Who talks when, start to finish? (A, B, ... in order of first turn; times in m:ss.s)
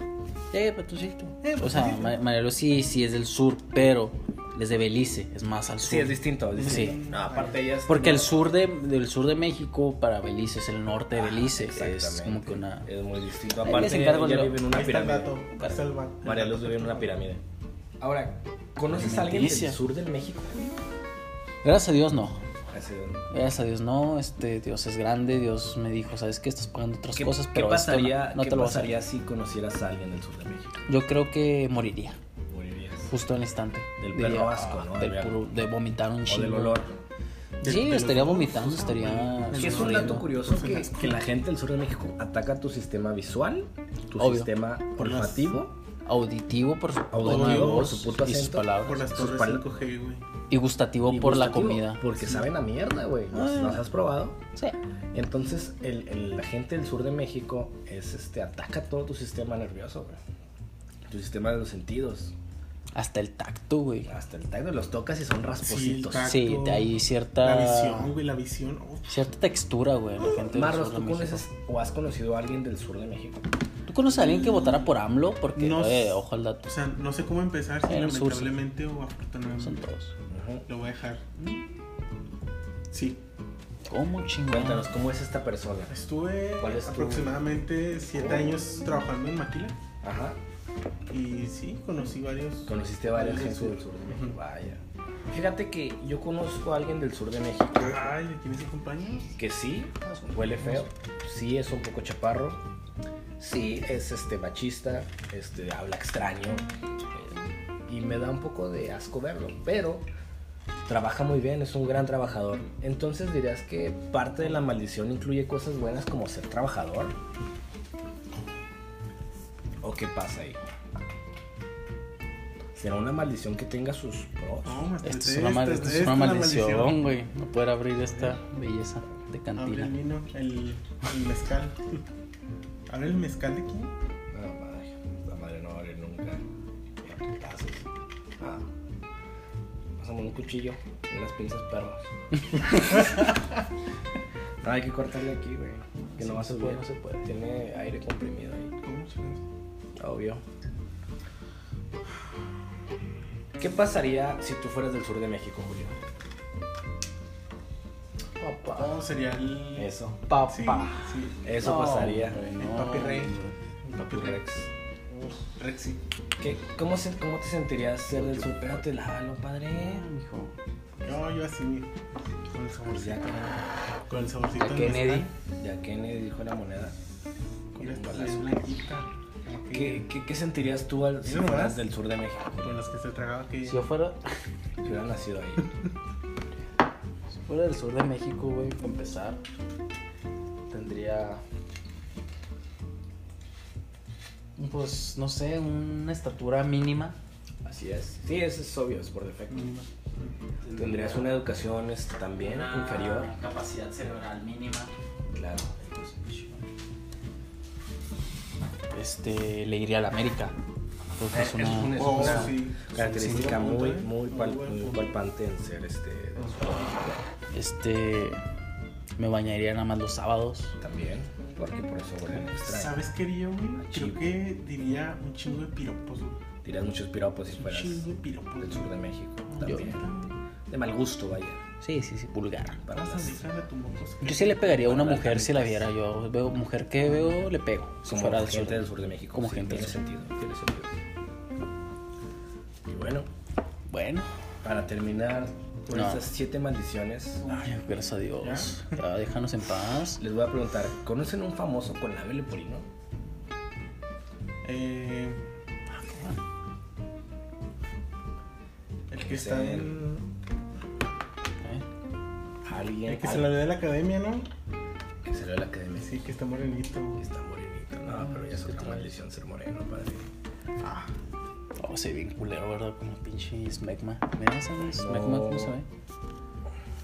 0:00.5-0:07.0 A
0:01.4-0:02.2 B
0:05.8-0:08.5 C
0:06.5-0:07.6 B
0:07.9-0:12.9 A
0:11.1-0:15.4 C
0:13.6-0:14.6 A
0:14.6-0:17.1 B
0:15.6-0:15.8 A
0:16.2-0:17.4 C
0:18.0-0:20.8 C
0:18.9-0:19.8 A
0:21.6-0:22.4 A
0:22.7-0:23.3 C
0:23.3-0:29.0 A
0:27.1-0:30.7 C
0:30.9-0:32.2 A
0:32.5-0:33.1 C
0:33.1-0:36.8 A
0:34.0-0:35.4 C
0:36.3-0:36.9 C
0:37.6-0:40.3 A
0:37.6-0:41.2 B
0:39.6-0:45.7 C
0:44.2-0:44.5 A
0:45.0-0:45.5 B
0:46.0-0:49.1 A
0:47.1-0:49.6 C
0:47.2-0:48.0 B
0:48.8-0:50.2 B
0:50.5-0:52.4 A
0:51.0-0:54.4 C
0:53.3-0:53.8 A
0:55.1-1:00.2 C
1:01.1-1:02.3 C
1:02.9-1:04.1 A
1:04.0-1:06.3 C
1:05.6-1:09.2 B
1:06.2-1:08.1 A
1:09.1-1:11.4 A
1:10.3-1:13.5 C
1:13.9-1:16.6 A
1:14.1-1:14.9 B
1:15.6-1:19.8 B
1:17.8-1:18.5 A
1:19.6-1:20.1 A
1:20.3-1:20.6 C
1:20.7-1:21.4 B
1:22.9-1:23.2 B
1:23.9-1:24.9 A
1:24.5-1:25.9 C
1:25.9-1:29.8 B
1:26.6-1:27.4 C
1:28.1-1:28.7 C
1:30.0-1:30.4 C
1:31.1-1:34.4 B
1:32.6-1:38.1 C
1:37.8-1:39.3 B
1:39.4-1:42.6 C
1:43.4-1:46.6 C
1:47.9-1:50.1 C
1:50.8-1:57.1 C
1:59.8-2:00.6 C
2:02.8-2:04.8 C
2:04.6-2:07.0 B
2:05.0-2:09.9 A
2:09.6-2:12.0 B
2:12.9-2:13.9 B
2:14.3-2:16.4 C
2:17.0-2:17.8 C
2:18.4-2:18.6 C
2:20.0-2:22.1 C
2:22.7-2:23.0 C
2:24.6-2:28.7 C
2:26.1-2:27.3 A
2:28.8-2:29.4 B
2:30.0-2:30.4 C
2:33.6-2:36.0 C
2:38.4-2:38.9 A
2:38.7-2:39.9 B
2:39.8-2:40.2 C
2:40.3-2:41.1 A
2:40.5-2:41.5 B
2:41.4-2:42.4 C
2:41.6-2:43.5 A
2:42.3-2:44.4 B
2:44.0-2:44.7 C
2:45.5-2:46.0 B
2:46.4-2:50.0 C
2:48.1-2:48.8 A
2:49.7-2:50.5 A
2:51.0-2:53.4 B
2:52.9-2:53.6 C
2:54.1-2:55.3 B
2:54.6-2:55.2 A
2:54.6-2:56.9 C
2:57.7-2:58.6 C
2:57.7-3:00.0 B
2:59.7-3:02.7 C
3:01.2-3:01.8 B
3:02.6-3:03.8 B
3:03.6-3:04.2 A
3:04.8-3:05.7 C
3:07.4-3:09.4 A
3:10.7-3:11.4 A
3:14.6-3:17.2 A
3:17.6-3:19.7 C
3:19.5-3:20.3 B
3:20.6-3:21.4 A
3:20.7-3:23.3 C
3:22.4-3:24.9 A
3:25.3-3:25.7 C
3:25.7-3:26.6 A
3:28.9-3:30.6 A
3:31.2-3:32.6 A
3:31.3-3:37.2 C
3:31.9-3:35.1 B
3:33.1-3:33.6 A
3:36.4-3:37.0 B
3:37.5-3:38.4 A
3:39.2-3:40.8 A
3:40.8-3:43.0 C
3:42.6-3:46.4 B
3:43.8-3:44.3 C
3:46.6-3:48.1 C
3:47.5-3:48.9 B
3:48.6-3:50.1 C
3:49.5-3:50.3 B
3:49.6-3:49.9 A
3:50.7-3:51.6 C
3:51.8-3:52.8 A
3:52.8-3:53.4 C
3:52.9-3:54.8 B
3:54.2-4:00.0 A
3:54.6-3:55.9 C
3:58.1-4:00.9 C
4:02.9-4:03.3 C
4:03.9-4:04.3 A
4:04.6-4:07.4 C
4:05.9-4:06.3 A
4:07.4-4:10.2 A
4:08.4-4:08.8 B
4:10.2-4:12.8 C
4:14.6-4:15.4 B
4:15.9-4:16.4 A
4:19.1-4:20.2 B
4:19.2-4:20.0 C
4:22.6-4:23.5 C
4:23.0-4:24.5 B
4:25.2-4:26.2 C
4:26.0-4:27.2 B
4:27.2-4:30.3 C
4:28.1-4:29.1 A
4:30.8-4:31.1 B
4:31.8-4:35.9 A
4:34.9-4:35.7 C